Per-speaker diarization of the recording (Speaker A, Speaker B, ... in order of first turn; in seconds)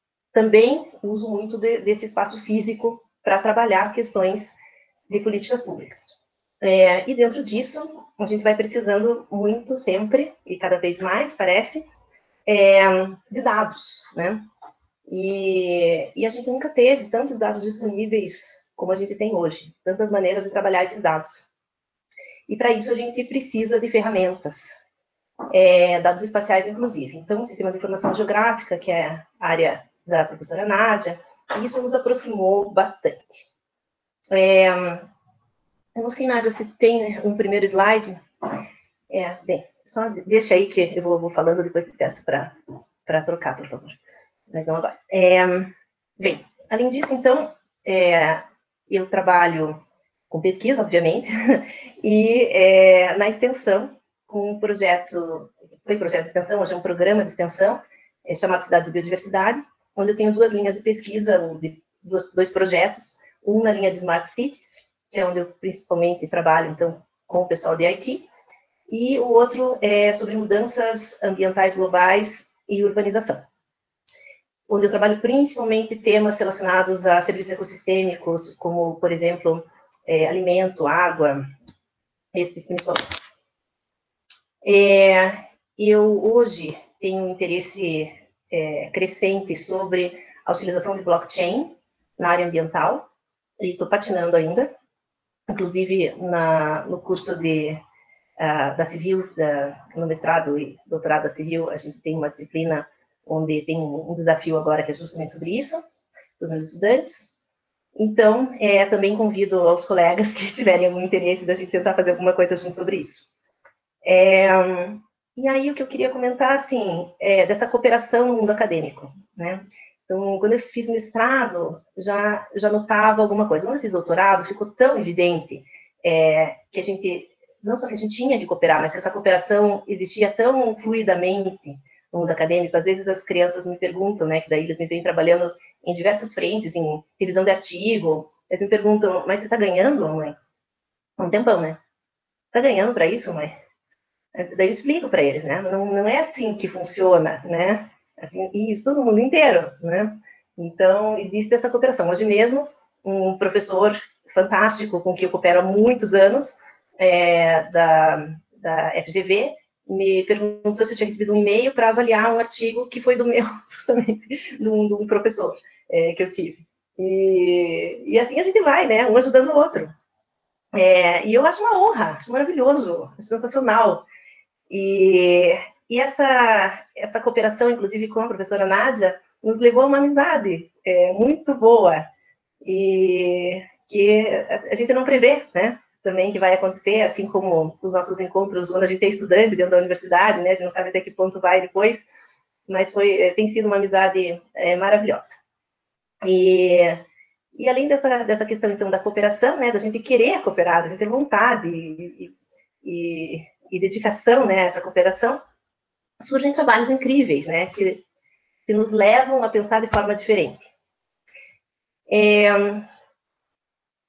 Speaker A: 0.3-4.6, 5.1-11.9, 12.5-14.5, 15.1-21.4, 22.5-24.8, 25.5-33.5, 34.3-35.1, 36.0-38.2, 39.1-42.5, 43.1-44.0, 44.5-68.3, 68.9-73.5, 74.7-81.5, 82.3-83.0, 84.6-93.1, 93.6-94.7, 95.5-97.8, 98.4-105.8, 106.4-107.3, 108.0-113.3, 114.0-140.4, 141.2-141.8, 142.5-143.6, 144.3-169.9, 170.7-174.1, 174.7-182.1, 182.6-192.1, 192.7-195.4, 196.2-205.4, 206.2-208.0, 208.7-210.7, 212.1-212.9